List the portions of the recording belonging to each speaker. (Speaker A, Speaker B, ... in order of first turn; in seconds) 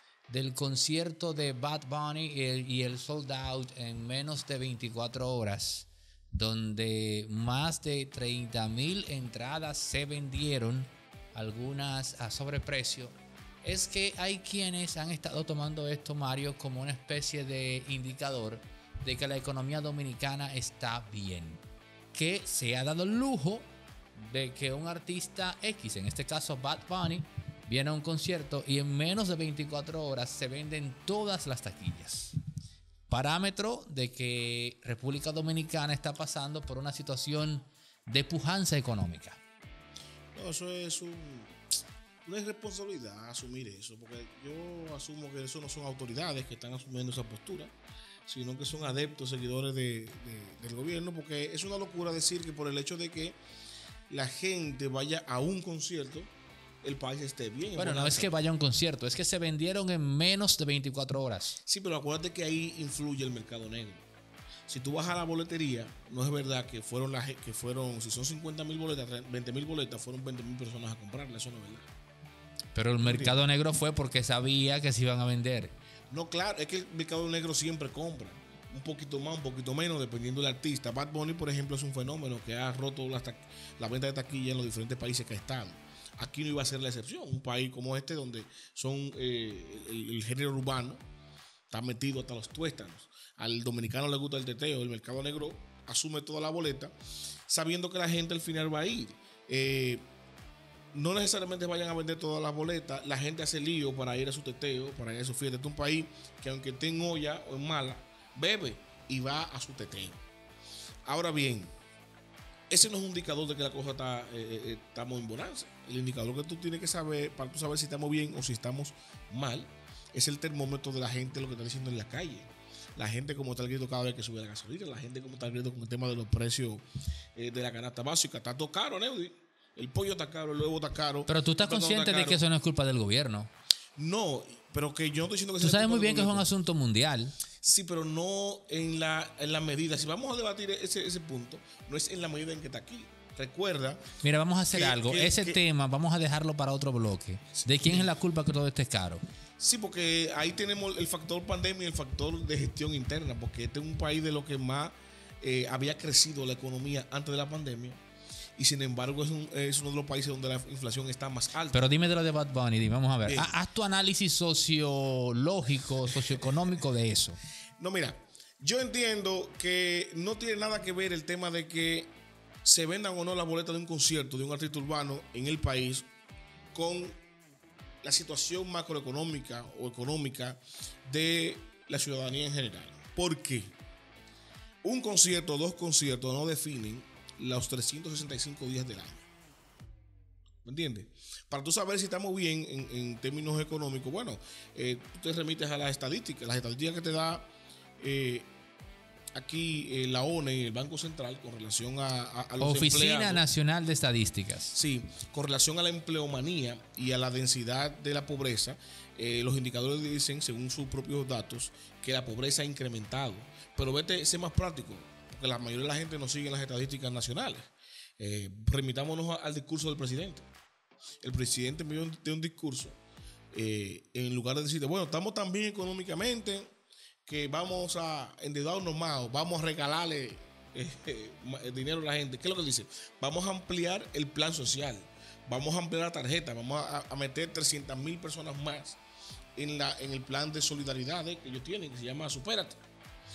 Speaker A: 0.3-21.6, 22.1-32.4, 33.1-39.4, 57.8-61.6, 72.7-75.7, 131.3-133.5, 135.6-137.3, 144.2-149.2, 161.7-167.4, 202.6-204.8
Speaker B: 40.3-41.6, 42.2-47.7, 48.3-53.4, 54.1-56.3, 56.8-58.3, 61.7-64.0, 64.7-71.9, 73.0-73.4, 76.1-91.0, 91.7-96.9, 97.5-100.1, 100.9-110.2, 111.1-111.7, 112.7-132.4, 134.0-136.5, 137.6-144.1, 144.7-145.6, 147.6-148.1, 149.6-158.0, 158.6-161.9, 163.2-163.5, 167.8-176.1, 176.7-177.2, 178.0-183.8, 184.8-189.3, 190.7-197.5, 198.0-198.5, 199.3-203.4, 204.7-220.5, 221.2-223.0, 223.5-226.7, 227.3-239.0, 239.6-242.8